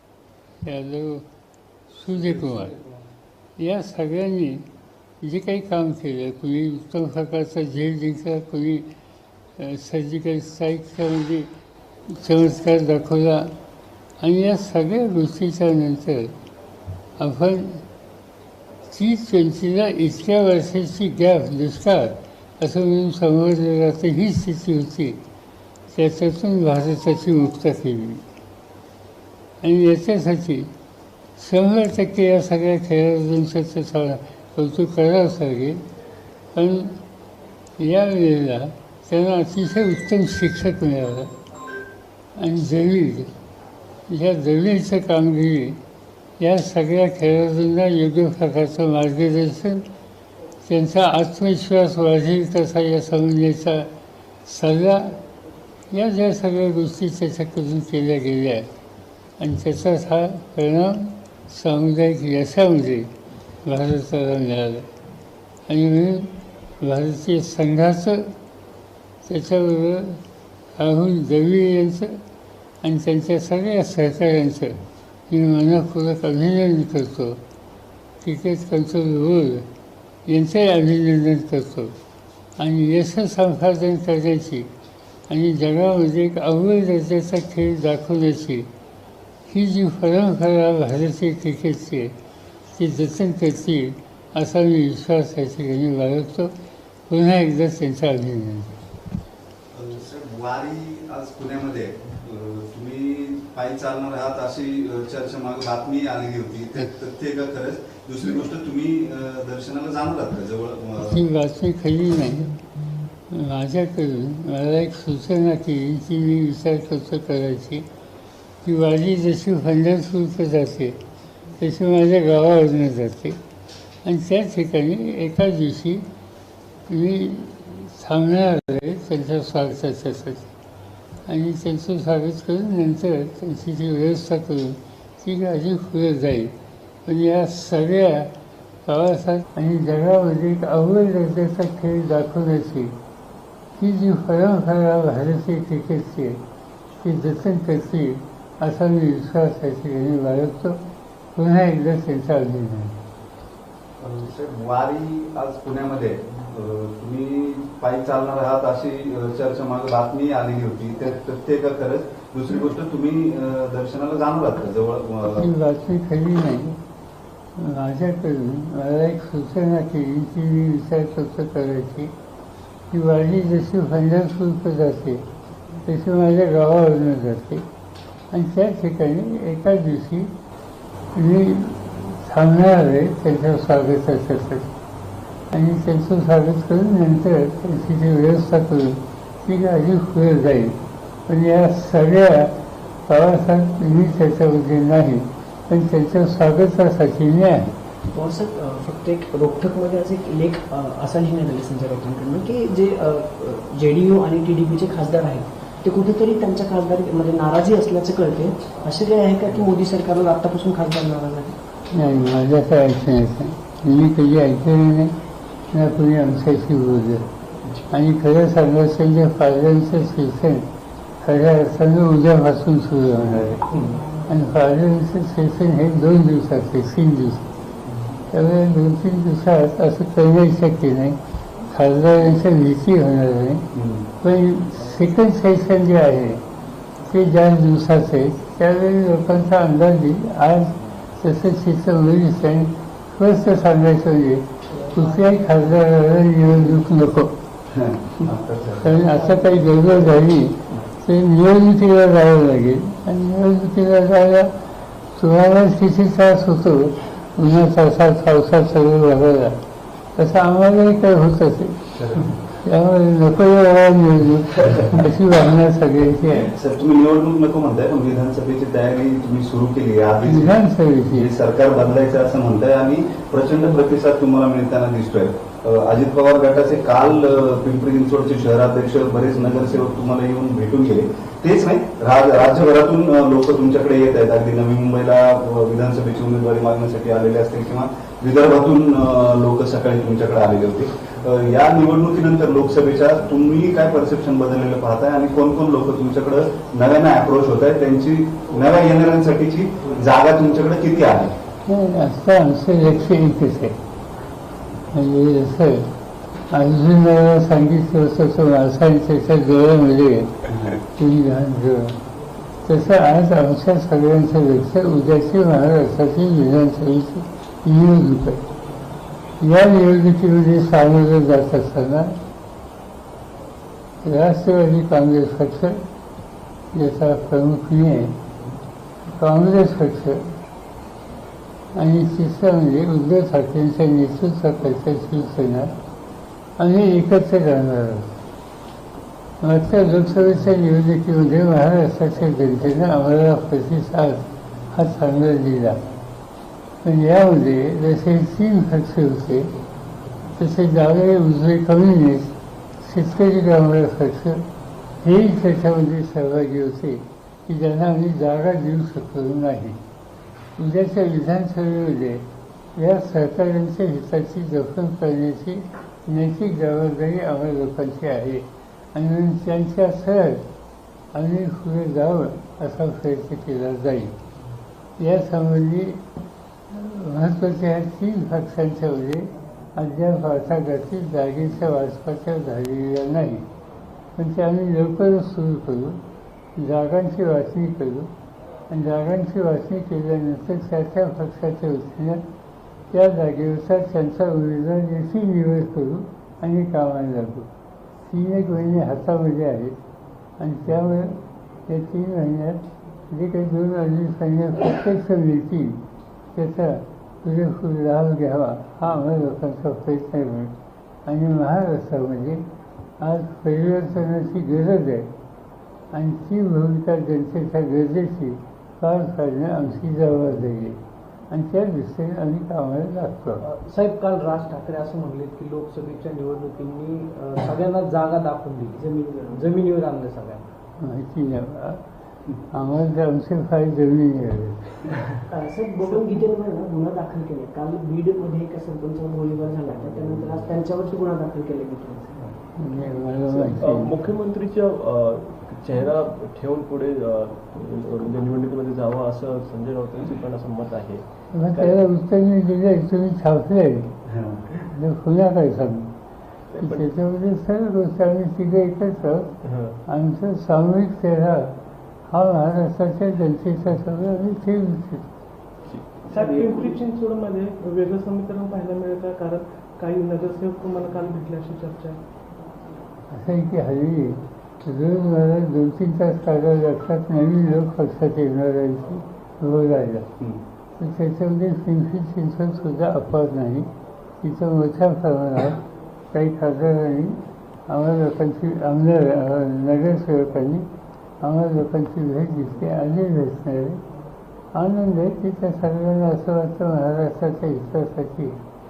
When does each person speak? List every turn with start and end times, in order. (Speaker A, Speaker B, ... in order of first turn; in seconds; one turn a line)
Speaker A: 0.6-1.2
Speaker A: 1.9-2.8
Speaker A: 3.6-4.7
Speaker A: 5.2-8.9
Speaker A: 9.6-11.5
Speaker A: 12.1-13.5
Speaker A: 14.2-16.3
Speaker A: 17.2-17.8
Speaker A: 18.9-25.2
Speaker A: 25.9-28.2
Speaker A: 29.6-30.7
Speaker A: 31.4-35.8
Speaker A: 36.5-37.0
Speaker A: 37.8-41.3
Speaker A: 42.4-43.3
Speaker A: 44.1-45.8
Speaker A: 46.4-49.9
Speaker A: 50.6-53.9
Speaker A: 54.4-55.2
Speaker A: 55.9-58.7
Speaker A: 59.4-63.1
Speaker A: 63.6-64.9
Speaker A: 65.7-68.3
Speaker A: 69.2-70.2
Speaker A: 70.8-72.2
Speaker A: 72.8-77.4
Speaker A: 78.2-79.7
Speaker A: 80.2-81.9
Speaker A: 82.6-84.7
Speaker A: 85.3-88.7
Speaker A: 89.5-92.1
Speaker A: 92.7-96.5
Speaker A: 97.1-98.7
Speaker B: 99.7-111.2
Speaker A: 111.0-112.6
Speaker A: 113.3-117.9
Speaker A: 118.6-121.0
Speaker A: 121.6-123.4
Speaker A: 124.0-126.1
Speaker A: 126.9-130.5
Speaker A: 131.2-136.5
Speaker A: 137.1-138.3
Speaker A: 138.8-142.9
Speaker A: 143.8-146.4
Speaker A: 147.0-150.8
Speaker A: 151.3-153.0
Speaker B: 154.0-165.5
Speaker A: 165.2-166.8
Speaker A: 167.6-172.1
Speaker A: 172.9-175.2
Speaker A: 175.8-177.6
Speaker A: 178.3-180.3
Speaker A: 181.1-184.7
Speaker A: 185.5-192.5
Speaker A: 193.1-197.7
Speaker C: 198.1-211.6
Speaker A: 211.9-215.1
Speaker A: 215.7-217.2
Speaker A: 217.9-220.7
Speaker A: 221.2-223.6
Speaker B: 223.7-224.0
Speaker A: 224.3-227.4
Speaker A: 228.3-233.7
Speaker B: 233.7-234.1
Speaker A: 234.2-236.4
Speaker A: 237.0-247.3
Speaker B: 247.7-249.0
Speaker A: 248.8-254.5
Speaker A: 255.1-259.6
Speaker A: 260.1-266.5
Speaker B: 262.0-262.4
Speaker B: 264.6-264.9
Speaker B: 266.3-301.4
Speaker A: 270.2-271.3
Speaker A: 301.6-303.8
Speaker A: 304.9-305.9
Speaker A: 306.5-312.0
Speaker B: 310.5-310.8
Speaker A: 312.6-318.4
Speaker A: 319.4-322.2
Speaker A: 324.0-325.8
Speaker A: 326.7-328.2
Speaker A: 329.1-330.4
Speaker A: 331.7-335.7
Speaker A: 336.6-338.1
Speaker A: 339.4-345.8
Speaker A: 346.8-349.5
Speaker A: 350.4-354.5
Speaker A: 355.0-359.8
Speaker A: 360.6-362.2
Speaker A: 362.8-370.4
Speaker A: 371.1-374.1
Speaker A: 375.0-376.0
Speaker A: 376.7-383.4
Speaker A: 384.1-386.0
Speaker A: 386.6-388.1
Speaker A: 388.7-392.2
Speaker A: 392.9-399.8
Speaker A: 400.4-405.8
Speaker A: 406.3-410.5
Speaker A: 411.0-412.5
Speaker A: 413.0-415.1
Speaker A: 415.9-423.4
Speaker D: 423.4-428.8
Speaker C: 428.8-429.5
Speaker D: 429.3-430.5
Speaker A: 430.8-431.8
Speaker A: 432.5-434.8
Speaker C: 435.3-442.3
Speaker A: 442.6-443.9
Speaker E: 443.6-451.8
Speaker A: 451.3-453.9
Speaker B: 454.1-454.4
Speaker A: 454.7-455.9
Speaker E: 456.5-456.9
Speaker A: 456.6-459.3
Speaker E: 459.4-459.8
Speaker A: 459.8-461.5
Speaker A: 462.1-465.1
Speaker E: 465.6-466.1
Speaker F: 466.1-472.0
Speaker A: 473.1-480.1
Speaker A: 480.8-485.6
Speaker A: 486.1-490.7
Speaker A: 491.2-493.8
Speaker A: 494.5-498.4